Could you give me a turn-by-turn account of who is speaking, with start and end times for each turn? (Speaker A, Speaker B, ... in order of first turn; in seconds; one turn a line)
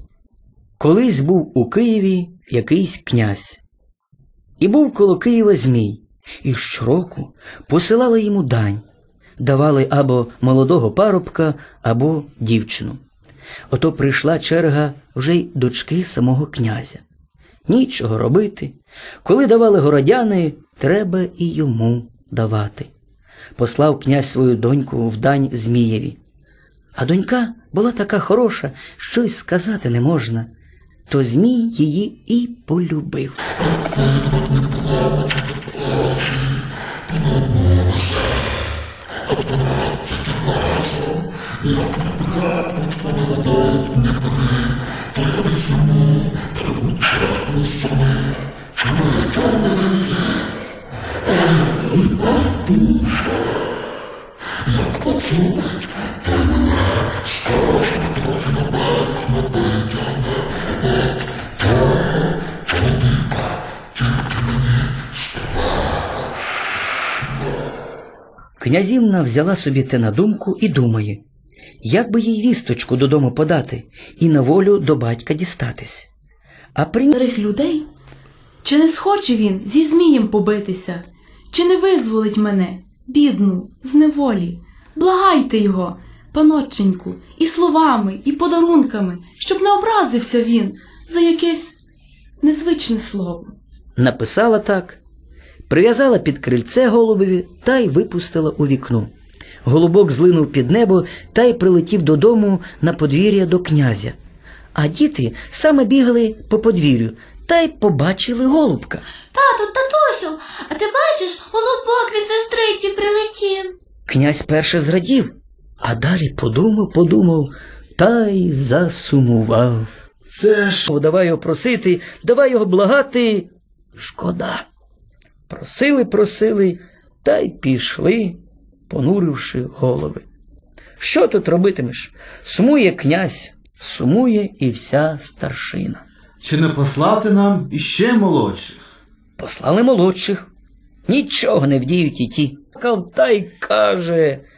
Speaker A: 0.8-3.6
Speaker A: 4.6-8.8
Speaker A: 9.4-13.0
Speaker A: 13.7-17.0
Speaker A: 17.7-22.9
Speaker A: 23.6-26.2
Speaker A: 26.9-30.5
Speaker A: 31.1-33.5
Speaker A: 68.6-71.2
Speaker A: 71.8-76.1
Speaker A: 76.7-77.1
Speaker B: 77.1-77.9
Speaker B: 78.6-91.8
Speaker B: 92.4-93.5
Speaker A: 94.0-95.0
Speaker A: 95.7-99.1
Speaker A: 99.6-104.2
Speaker A: 104.7-109.0
Speaker C: 109.3-113.7
Speaker A: 114.1-124.7
Speaker A: 125.5-130.2
Speaker A: 131.0-136.0
Speaker D: 136.4-138.8
Speaker A: 139.4-140.5
Speaker A: 141.1-144.4